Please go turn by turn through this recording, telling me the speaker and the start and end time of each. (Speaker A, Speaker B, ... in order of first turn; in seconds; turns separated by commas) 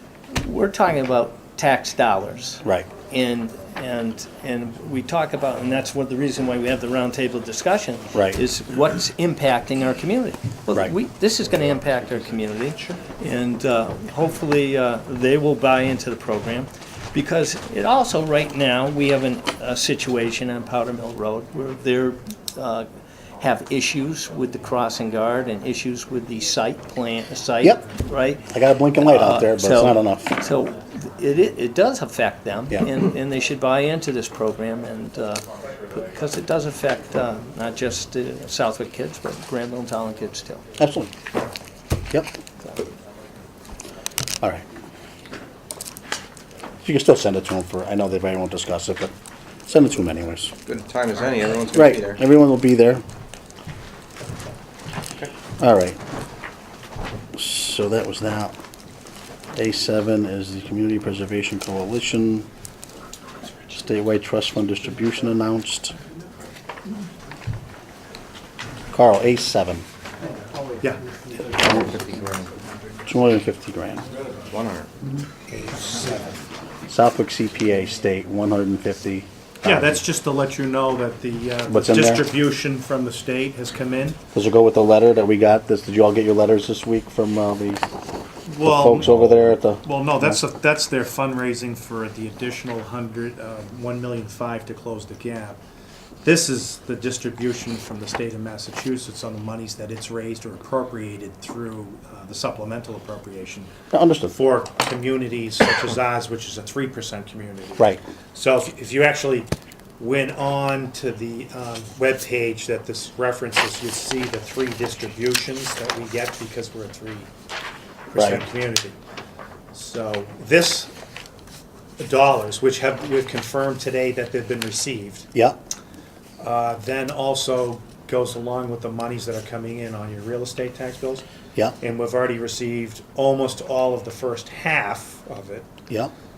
Speaker A: 0.3-22.9, Speaker B: 8.2-8.4, Speaker A: 23.4-40.6, Speaker B: 28.5-30.3, Speaker B: 40.8-41.1, Speaker B: 46.8-49.1, Speaker B: 49.7-50.5, Speaker C: 50.6-52.2, Speaker B: 51.7-53.0, Speaker B: 55.6-56.0, Speaker B: 57.3-58.5, Speaker B: 59.5-62.5, Speaker B: 63.7-65.9, Speaker B: 68.9-69.8, Speaker C: 71.4-72.5, Speaker B: 73.1-74.0, Speaker C: 74.2-74.9, Speaker D: 75.5-76.5, Speaker B: 76.9-80.0, Speaker D: 79.6-84.2, Speaker B: 81.7-82.3, Speaker B: 84.3-87.8, Speaker D: 88.5-89.2, Speaker B: 88.6-90.4, Speaker D: 89.8-95.6, Speaker D: 96.2-103.7, Speaker B: 103.9-104.3, Speaker D: 104.3-117.3, Speaker D: 118.1-119.0, Speaker B: 118.2-118.4, Speaker D: 119.7-120.9, Speaker D: 122.0-125.3, Speaker D: 126.4-131.2, Speaker D: 131.8-135.7